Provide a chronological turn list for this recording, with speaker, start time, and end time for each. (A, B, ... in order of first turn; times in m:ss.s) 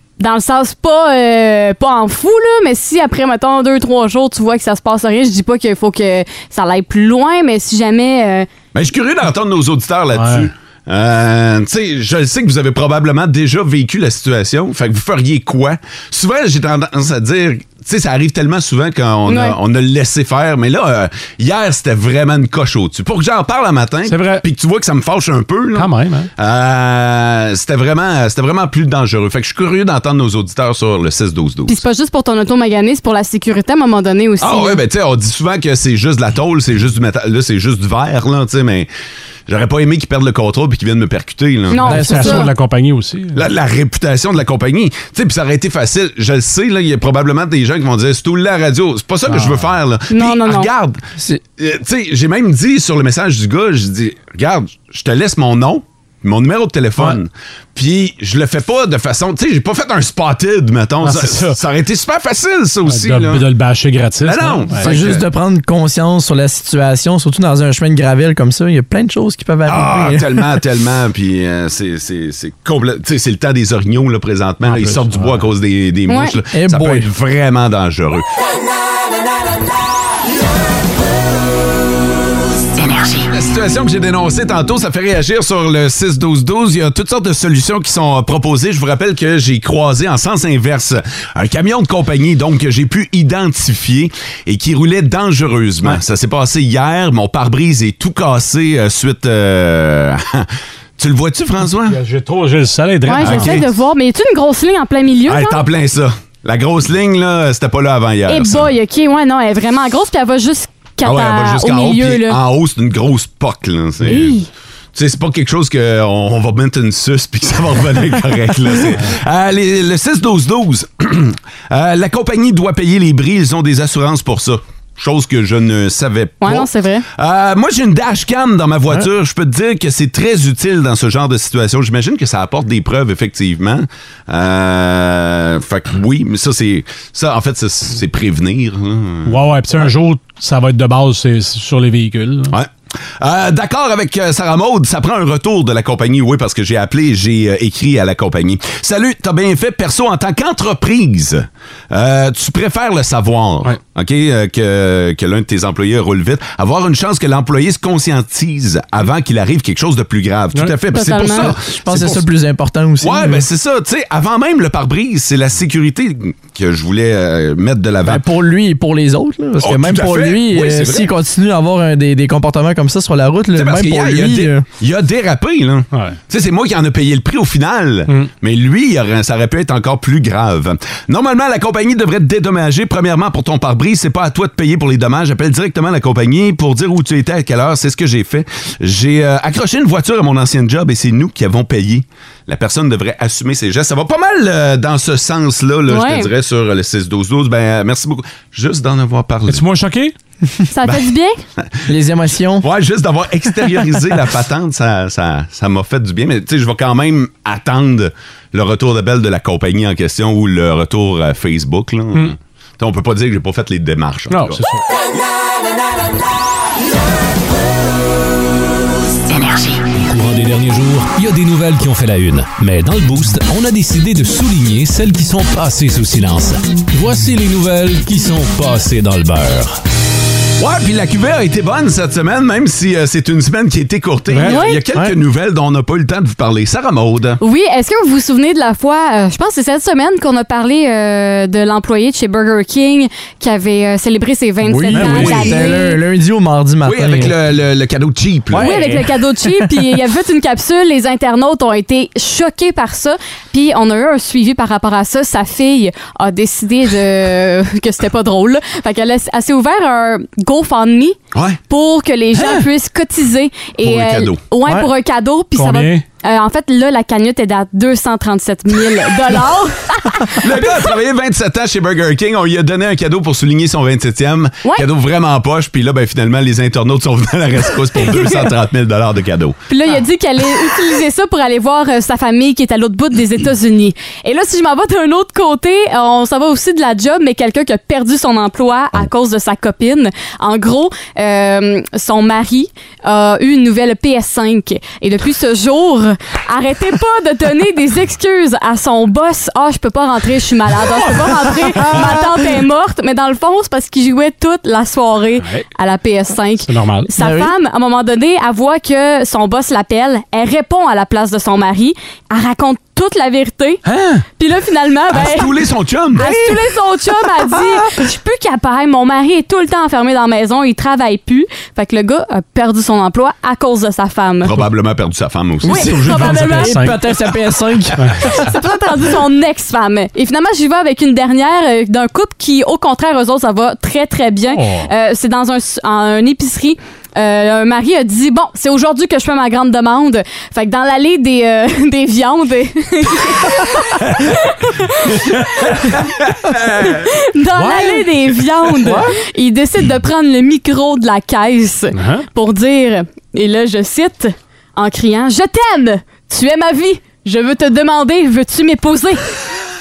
0:00.2-0:08.5 A
0:08.7-0:31.8 B
0:10.1-0:10.5 C
0:19.3-0:19.6 A
0:24.1-0:24.4 C
0:25.8-0:26.3 C
0:31.7-0:34.8 A
0:34.4-0:38.9 B
0:39.5-0:42.0 B
0:41.7-0:42.5 A
0:41.8-0:43.4 C
0:41.8-0:42.5 D
0:43.4-0:51.0 B
0:49.3-0:49.7 C
0:50.1-0:50.7 A
0:51.6-1:03.4 B
1:01.0-1:01.6 C
1:02.9-1:05.0 C
1:04.2-1:05.3 B
1:04.8-1:10.6 D
1:09.7-1:18.3 B
1:14.6-1:15.5 C
1:16.1-1:16.4 A
1:16.5-1:17.1 D
1:23.2-1:42.0 B
1:41.8-1:43.6 C
1:43.1-1:45.6 A
1:43.2-1:43.7 B
1:45.3-1:48.7 B
1:48.3-1:52.4 A
1:51.0-1:54.4 B
1:54.0-1:54.5 A
1:55.0-2:19.4 B
2:06.4-2:07.1 A
2:19.2-2:22.5 C
2:22.5-2:42.2 B
2:40.9-2:41.6 A
2:41.5-2:43.5 D
2:43.0-2:48.2 B
2:48.0-2:54.6 D
2:49.6-2:51.1 B
2:53.6-3:19.6 B
3:15.9-3:16.3 A
3:19.5-3:20.1 C
3:20.7-3:21.4 A
3:20.8-3:21.8 B
3:21.9-3:22.7 D
3:22.6-3:34.6 B
3:34.3-3:34.8 C
3:39.8-3:49.8 E
3:50.6-3:57.4 B
3:54.3-3:55.1 C
3:54.4-3:54.8 A
3:57.4-4:06.0 A
4:04.6-4:07.3 D
4:04.9-4:05.6 C
4:06.8-4:08.9 B
4:08.5-4:09.6 D
4:08.6-4:21.2 A
4:21.3-4:21.6 B
4:21.7-4:30.9 A
4:22.4-4:22.6 C
4:23.8-4:24.4 B
4:25.6-4:26.0 C
4:30.4-4:39.6 B
4:38.0-4:38.5 A
4:39.7-5:13.8 A
5:01.8-5:02.4 D
5:06.7-5:07.1 C
5:07.2-5:07.5 D
5:13.9-5:14.2 C
5:14.4-5:15.6 A
5:15.1-5:16.7 B
5:16.1-5:24.5 A
5:24.4-5:26.3 B
5:25.6-5:28.5 D
5:25.7-5:26.8 A
5:26.0-5:27.0 C
5:28.0-5:28.4 C
5:28.3-5:45.8 A
5:34.5-5:34.9 C
5:45.7-5:47.1 B
5:46.9-5:59.2 A
5:47.6-5:48.1 C
5:48.8-5:49.2 D
5:52.0-5:52.3 C